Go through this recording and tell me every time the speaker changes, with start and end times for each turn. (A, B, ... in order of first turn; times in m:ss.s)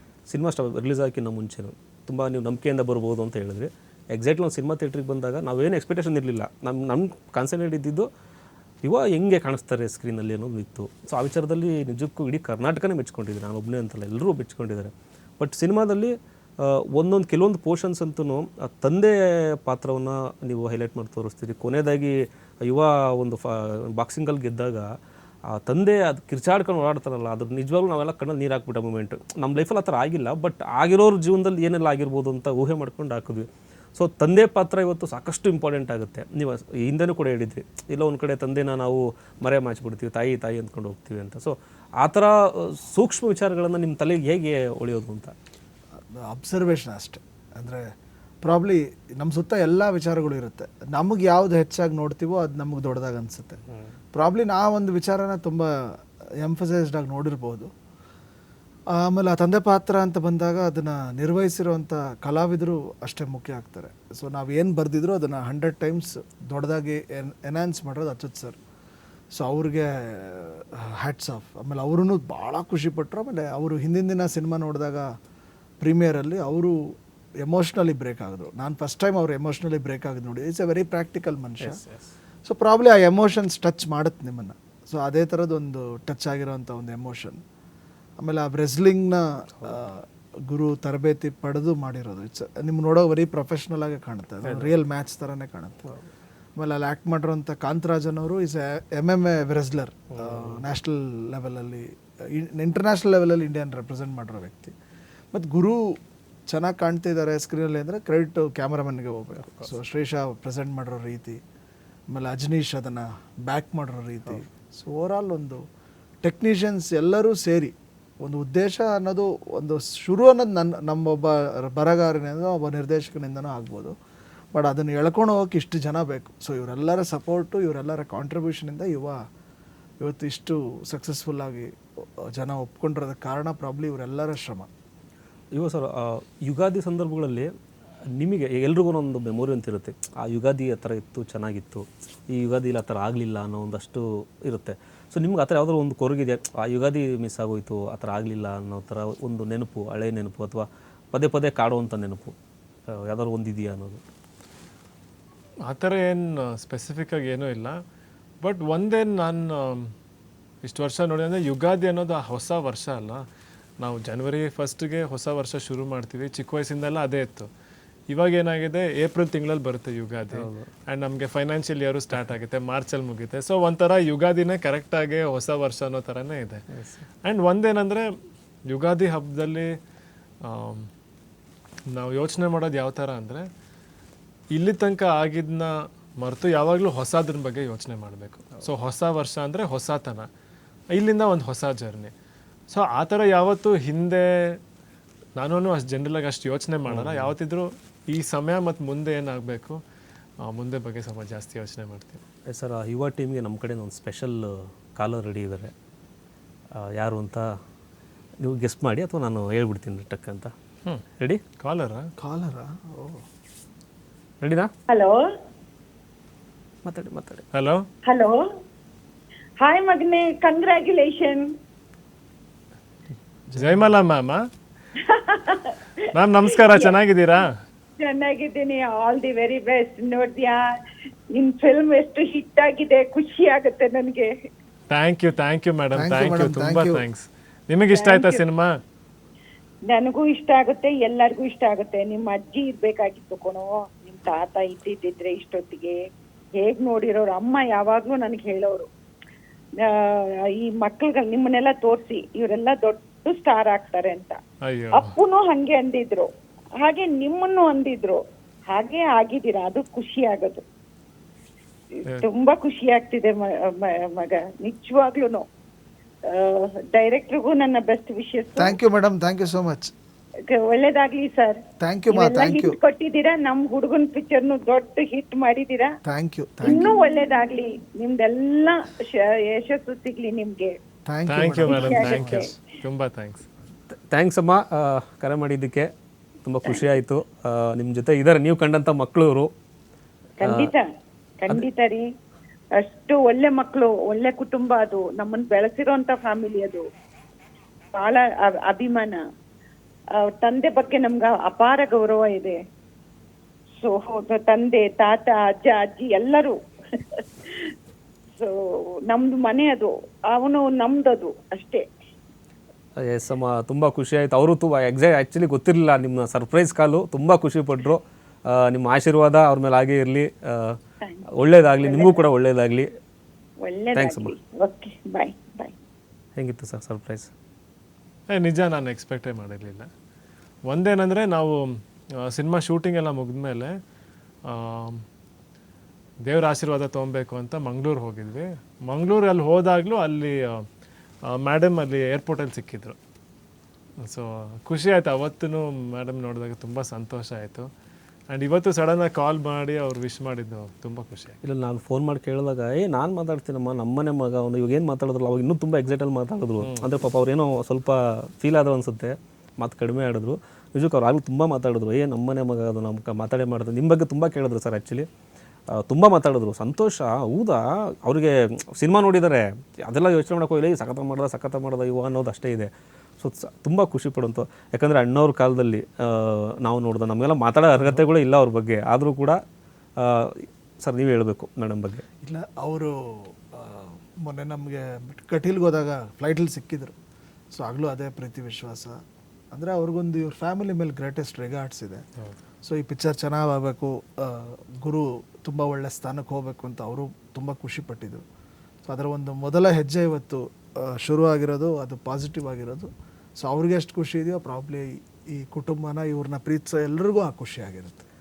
0:00.3-0:08.1 A
0:08.8-0:24.9 A
0:25.5-0:45.3 A
0:46.1-0:47.8 B
0:48.4-0:53.6 B
0:54.1-0:57.7 B
0:58.9-1:08.6 B
1:09.3-1:15.1 B
1:15.8-1:21.8 B
1:21.6-1:22.1 A
1:22.4-1:27.4 B
1:28.2-1:35.9 B
1:34.4-1:34.7 C
1:36.6-1:44.7 B
1:40.1-1:40.6 A
1:45.3-1:45.9 B
1:46.5-1:51.4 B
1:52.1-1:55.6 B
1:56.2-2:03.9 B
2:04.5-2:09.2 B
2:10.0-2:11.7 B
2:12.3-2:14.7 B
2:15.5-2:17.5 A
2:18.1-2:32.4 A
2:32.9-2:34.0 A
2:35.7-2:37.8 C
2:38.4-2:39.9 C
2:40.6-2:43.2 C
2:43.8-2:47.5 C
2:48.1-2:56.6 C
2:50.3-2:50.7 A
2:56.7-2:57.0 A
2:57.2-2:58.1 C
2:58.7-2:59.7 C
3:00.4-3:00.9 C
3:01.9-3:03.4 C
3:04.5-3:10.3 C
3:10.9-3:12.1 C
3:12.7-3:14.6 C
3:15.4-3:19.8 C
3:16.9-3:17.3 A
3:20.4-3:22.2 C
3:22.5-3:25.7 A
3:26.7-3:27.6 A
3:28.4-3:30.5 A
3:31.6-3:32.1 C
3:32.2-3:33.2 B
3:34.4-3:34.7 A
3:34.9-3:35.2 D
3:36.8-3:37.4 A
3:37.5-3:37.8 C
3:38.0-3:38.4 D
3:39.6-3:41.4 D
3:43.5-3:43.8 B
3:43.6-3:44.4 C
3:45.0-3:47.0 D
3:46.1-3:47.6 C
3:48.0-3:50.7 D
3:51.3-3:54.3 D
3:54.9-3:58.7 C
3:55.9-3:57.0 B
3:57.9-3:58.4 D
3:59.8-4:06.0 D
4:06.5-4:08.9 D
4:09.8-4:14.4 D
4:14.6-4:15.1 C
4:14.9-4:16.3 D
4:16.8-4:20.6 D
4:22.0-4:25.4 D
4:26.3-4:28.7 D
4:28.6-4:29.9 B
4:30.5-4:35.9 D
4:31.8-4:32.8 B
4:36.0-4:36.9 B
4:36.6-4:40.8 D
4:41.1-4:42.5 B
4:41.3-4:43.4 C
4:41.6-4:42.5 D
4:43.9-4:45.9 A
4:46.4-4:49.5 A
4:50.4-4:50.8 D
4:50.4-4:50.7 A
4:51.4-4:52.0 D
4:52.8-4:56.8 D
4:57.9-4:59.2 D
5:00.2-5:02.6 D
5:03.8-5:07.7 D
5:08.4-5:11.8 D
5:13.0-5:20.8 A
5:21.4-5:22.9 A
5:21.8-5:22.2 D
5:23.6-5:25.7 D
5:23.9-5:24.3 A
5:26.4-5:27.3 A
5:28.3-5:29.9 C
5:30.7-5:33.7 C
5:34.5-5:35.0 C
5:36.2-5:40.6 C
5:41.3-5:43.0 C
5:44.0-5:47.7 C
5:48.3-5:51.4 C
5:51.4-6:05.1 A
5:56.6-5:56.9 C
6:05.7-6:19.4 A
6:20.0-6:22.0 A
6:22.2-6:26.9 B
6:27.5-6:29.0 B
6:29.5-6:32.0 B
6:32.6-6:38.2 B
6:38.8-6:48.0 B